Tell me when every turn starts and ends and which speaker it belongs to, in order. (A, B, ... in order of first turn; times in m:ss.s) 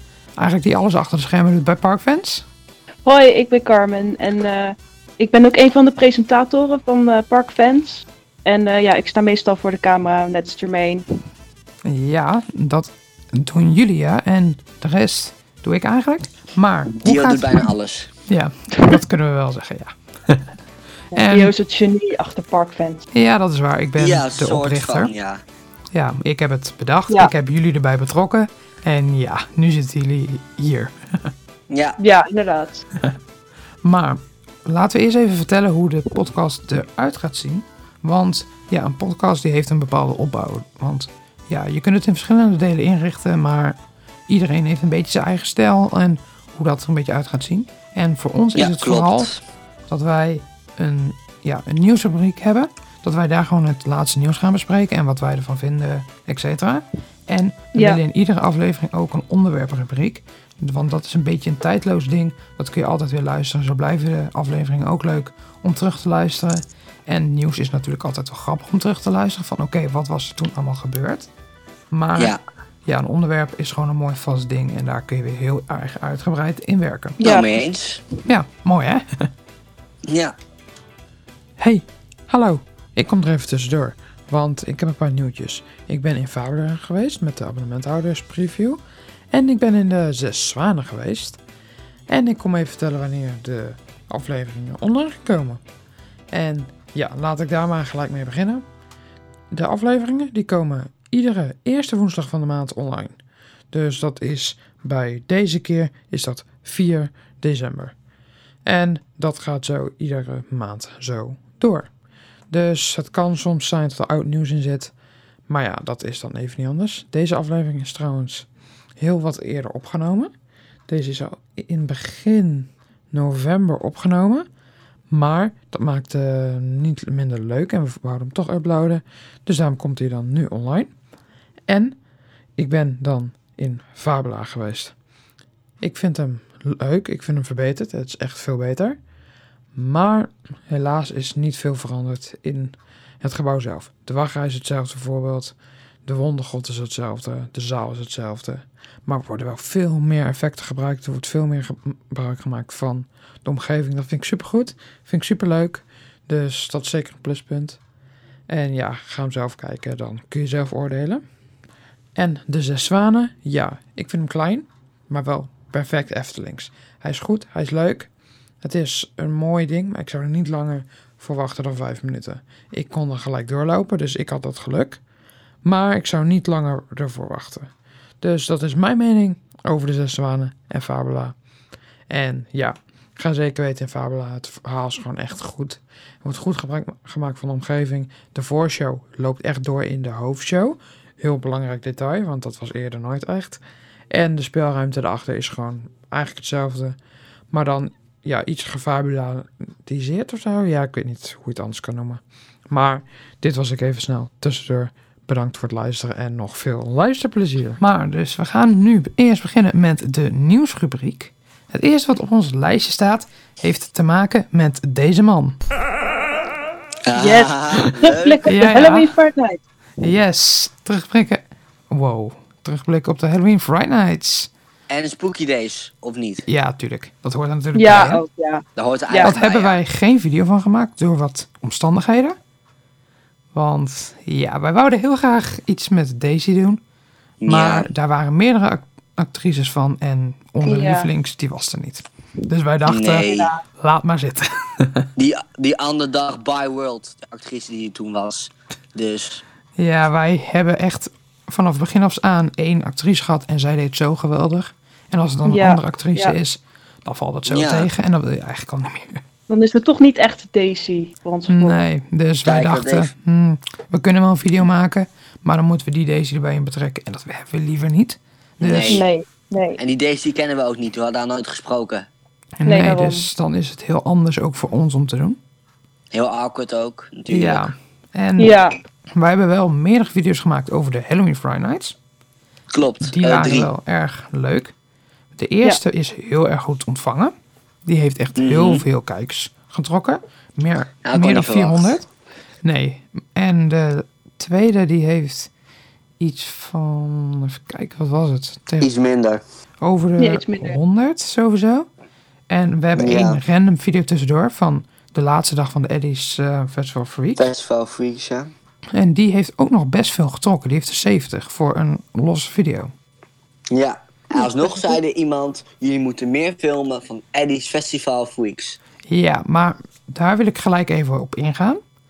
0:00.4-0:02.5 A
0:03.0-0:11.0 B
0:11.8-0:17.7 A
0:16.9-0:18.1 C
0:18.3-0:20.4 A
0:21.1-0:21.5 A
0:21.1-0:23.1 B
0:23.1-0:25.1 A
0:24.0-0:25.4 C
0:25.9-0:31.3 A
0:31.7-0:32.0 C
0:32.0-0:32.8 B
0:33.8-0:43.8 A
0:44.3-0:49.3 A
0:48.5-0:49.4 C
0:49.9-1:11.3 A
0:57.7-0:58.0 B
1:11.9-1:12.3 A
1:12.8-1:17.2 A
1:17.2-1:17.6 B
1:17.2-1:18.0 C
1:18.2-1:19.3 A
1:20.1-1:20.3 C
1:21.6-1:28.8 A
1:29.3-1:31.4 A
1:32.1-1:35.6 A
1:36.3-1:38.6 A
1:39.5-1:43.2 A
1:43.7-1:47.9 A
1:48.6-1:51.9 A
1:52.5-1:54.9 A
1:55.5-1:58.5 A
1:59.0-2:00.3 A
2:00.9-2:04.4 A
2:05.1-2:10.9 A
2:11.7-2:12.0 A
2:12.6-2:14.9 A
2:15.8-2:19.0 A
2:19.7-2:25.5 A
2:26.0-2:37.8 A
2:38.5-2:41.2 A
2:42.2-2:48.1 A
2:48.6-2:55.0 A
2:55.6-3:01.3 A
3:02.1-3:17.0 A
3:17.5-3:35.6 A
3:37.0-3:38.4 C
3:37.1-3:39.6 B
3:38.4-3:39.1 A
3:40.0-3:44.5 A
3:44.9-3:46.4 C
3:46.4-3:48.2 A
3:47.7-3:49.3 B
3:48.8-3:49.8 C
3:49.2-3:52.4 A
3:53.5-3:56.8 A
3:57.4-3:57.9 C
3:57.5-4:05.1 A
4:00.6-4:01.1 B
4:02.9-4:03.5 C
4:03.2-4:03.6 B
4:05.2-4:09.4 C
4:09.8-4:19.2 A
4:15.4-4:16.4 B
4:17.5-4:17.9 C
4:19.5-4:21.8 B
4:21.5-4:29.0 A
4:22.4-4:23.1 C
4:28.6-4:29.0 C
4:28.9-4:29.8 B
4:29.8-4:32.1 C
4:32.6-4:35.4 A
4:32.6-4:33.2 B
4:36.1-4:37.7 C
4:37.3-4:38.6 A
4:38.4-4:38.8 B
4:39.1-4:42.0 A
4:42.7-4:43.7 C
4:43.0-4:44.7 A
4:45.4-4:47.3 A
4:47.8-4:52.1 A
4:48.4-4:48.8 C
4:51.0-4:52.0 C
4:52.6-4:55.5 A
4:56.2-4:58.9 A
4:58.8-4:59.4 C
4:59.8-5:01.9 A
5:00.2-5:00.8 B
5:02.5-5:07.5 A
5:03.0-5:03.4 C
5:07.4-5:08.5 C
5:08.9-5:12.9 A
5:13.7-5:18.8 C
5:14.3-5:15.0 B
5:19.1-5:21.8 A